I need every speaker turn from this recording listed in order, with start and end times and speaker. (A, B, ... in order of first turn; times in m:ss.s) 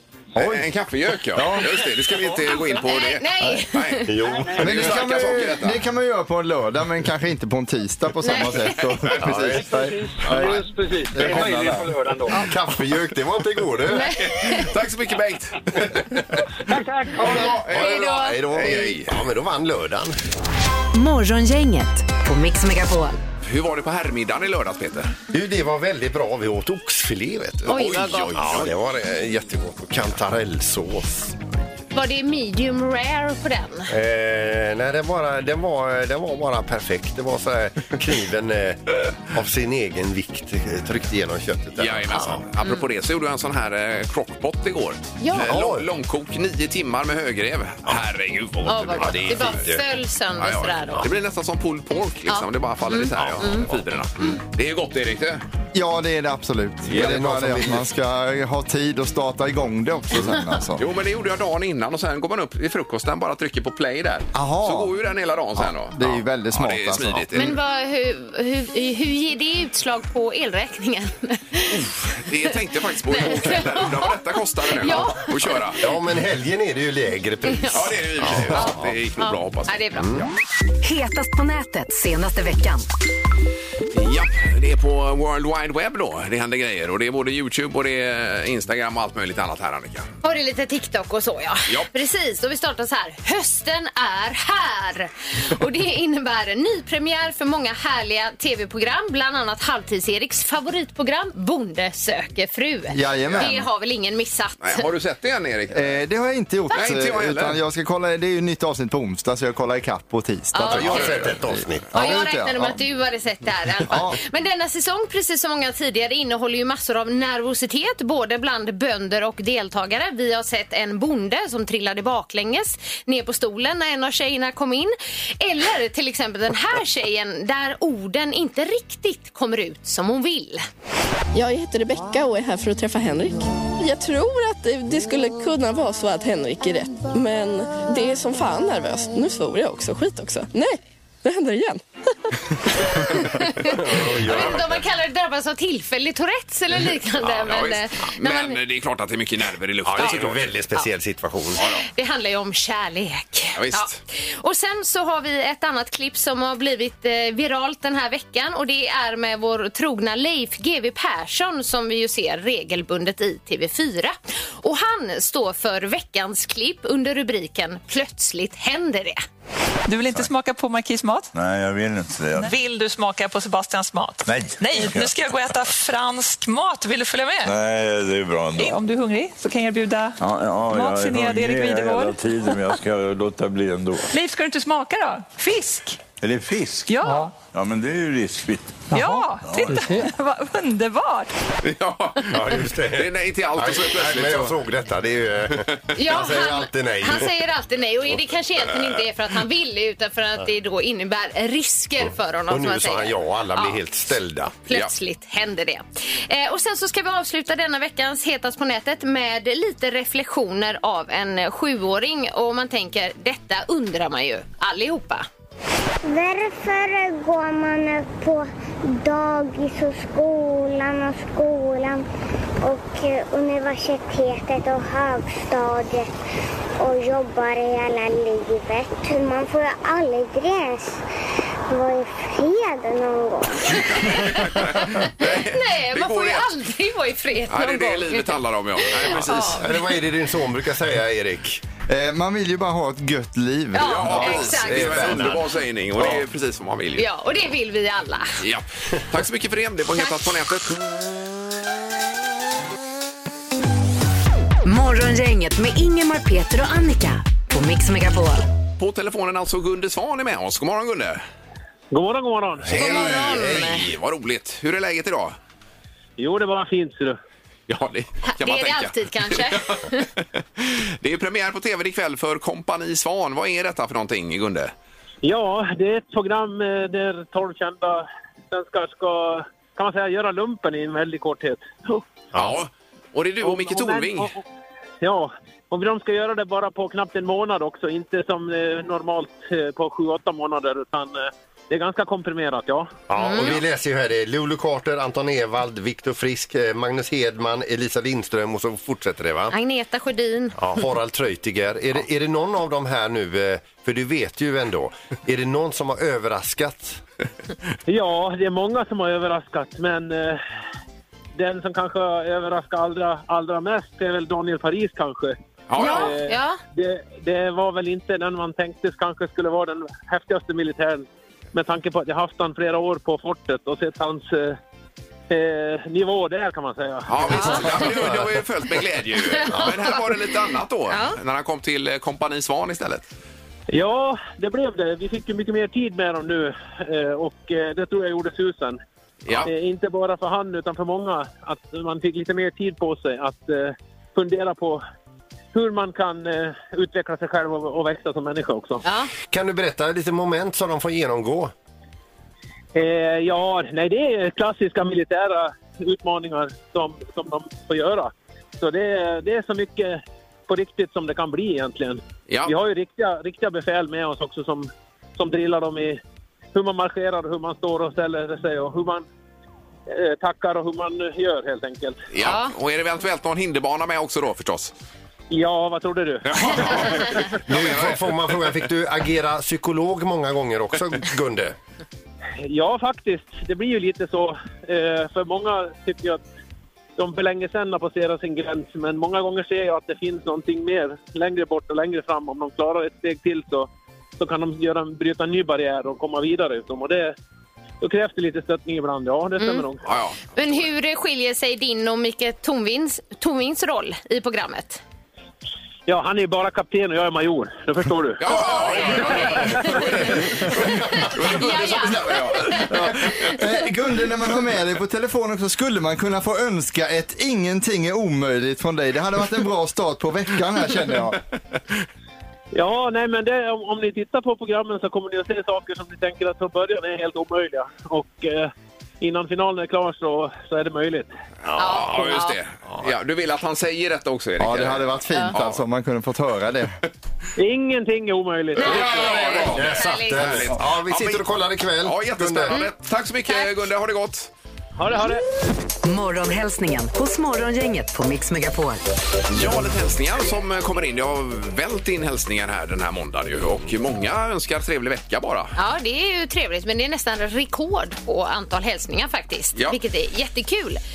0:00.4-0:05.8 A
0:01.3-0:01.8 B
0:02.4-0:04.2 C
0:04.1-0:05.0 D
0:04.3-0:04.6 E
0:04.6-0:11.9 B
0:08.2-0:08.9 C
0:09.2-0:10.5 D
0:09.5-0:12.5 E
0:12.3-0:14.1 D
0:13.9-0:14.7 C
0:14.0-0:16.2 A
0:16.7-0:17.6 E
0:17.2-0:19.2 A
0:17.2-0:20.2 D
0:17.2-0:19.0 C
0:20.9-0:23.2 F
0:23.4-0:25.1 A
0:25.3-0:31.4 D
0:27.7-0:28.4 C
0:27.7-0:28.7 A
0:31.9-0:33.9 C
0:33.9-0:42.4 D
0:41.8-0:49.7 A
0:45.2-0:45.5 C
0:45.3-0:45.9 D
0:48.6-0:49.8 D
0:48.7-0:51.1 C
0:50.4-0:55.4 A
0:52.3-0:53.6 C
0:53.2-0:53.8 D
0:55.7-1:00.8 B
0:56.9-0:57.8 D
1:00.8-1:07.6 A
1:04.3-1:05.0 B
1:05.6-1:07.3 B
1:07.3-1:11.8 C
1:11.7-1:15.8 A
1:13.1-1:14.2 C
1:14.7-1:15.7 C
1:15.8-1:18.9 D
1:17.5-1:17.9 C
1:17.7-1:19.8 A
1:18.4-1:20.2 C
1:20.0-1:20.3 D
1:20.8-1:22.9 F
1:23.9-1:30.1 A
1:30.2-1:44.8 C
1:42.9-1:43.6 B
1:44.6-1:46.0 A
1:45.7-1:52.8 B
1:46.7-1:47.6 A
1:50.5-1:51.2 C
1:50.6-1:51.9 D
1:51.9-2:10.6 C
1:53.9-1:54.2 B
2:11.3-2:21.8 G
2:23.0-2:28.6 C
2:23.6-2:24.8 D
2:27.2-2:30.4 A
2:29.8-2:31.6 D
2:31.6-2:31.8 A
2:31.6-2:49.2 C
2:33.6-2:34.0 A
2:49.9-2:51.3 H
2:51.3-2:52.5 I
2:52.4-2:57.5 H
2:54.2-2:55.1 I
2:57.4-2:58.8 I
2:58.6-3:00.2 H
3:00.2-3:04.1 I
3:00.7-3:02.2 H
3:04.1-3:06.0 H
3:06.2-3:10.1 I
3:06.9-3:07.3 H
3:08.9-3:11.3 H
3:11.6-3:14.6 A
3:12.3-3:17.3 D
3:15.9-3:23.8 C
3:22.5-3:24.6 D
3:24.7-3:35.2 C
3:36.0-3:42.0 J
3:42.6-3:46.1 J
3:46.8-3:51.0 J
3:51.7-3:54.0 J
3:53.8-3:59.6 C
3:54.1-3:56.5 A
3:57.5-3:59.7 A
3:59.4-4:01.6 D
4:01.9-4:04.6 B
4:03.7-4:05.2 C
4:03.8-4:07.0 A
4:04.1-4:06.2 D
4:07.0-4:08.4 C
4:08.4-4:10.8 A
4:14.6-4:18.5 F
4:18.8-4:21.2 A
4:21.9-4:22.8 K
4:22.7-4:23.8 D
4:22.7-4:25.4 A
4:22.7-4:23.9 C
4:26.2-4:27.2 K
4:27.7-4:29.9 A
4:28.2-4:30.1 C
4:30.6-4:34.7 A
4:35.2-4:42.0 K
4:42.3-4:42.6 D
4:42.3-4:44.3 A
4:43.4-4:44.4 K
4:45.0-4:52.9 K
4:53.1-4:59.5 D
4:53.2-4:53.6 C
4:59.5-5:00.5 C
5:00.6-5:07.0 D
5:07.9-5:10.4 K
5:11.4-5:24.6 K
5:15.7-5:16.1 A
5:15.8-5:16.6 C
5:25.3-5:27.9 K
5:27.1-5:33.0 A
5:27.3-5:28.0 C
5:29.3-5:30.1 C
5:30.9-5:31.2 C
5:33.7-5:38.8 K
5:39.2-5:39.5 A
5:39.4-5:44.8 K
5:45.5-5:48.8 K
5:48.8-5:49.1 C
5:49.3-5:51.5 D
5:52.7-6:06.0 K
6:02.3-6:02.5 A
6:06.5-6:09.0 K
6:09.9-6:12.0 K
6:12.1-6:14.7 A
6:12.2-6:12.5 C
6:15.3-6:17.2 K
6:16.2-6:18.5 A
6:17.5-6:21.5 D
6:22.4-6:26.2 K
6:27.0-6:37.1 K
6:37.8-6:39.8 K
6:39.4-6:39.7 C
6:39.8-6:40.6 A
6:40.3-6:44.8 C
6:45.9-6:48.2 K
6:48.2-6:53.3 A
6:48.3-6:53.4 C
6:49.5-6:49.8 K
6:53.1-7:01.2 B
7:02.5-7:11.1 K
7:11.4-7:12.2 D
7:11.6-7:12.4 C
7:11.6-7:15.6 A
7:14.4-7:16.7 B
7:17.4-7:19.3 K
7:18.6-7:20.4 C
7:18.6-7:21.2 A
7:19.3-7:22.6 D
7:21.8-7:24.3 A
7:24.8-7:25.2 K
7:25.8-7:28.8 F
7:29.3-7:35.5 A
7:35.5-7:40.8 C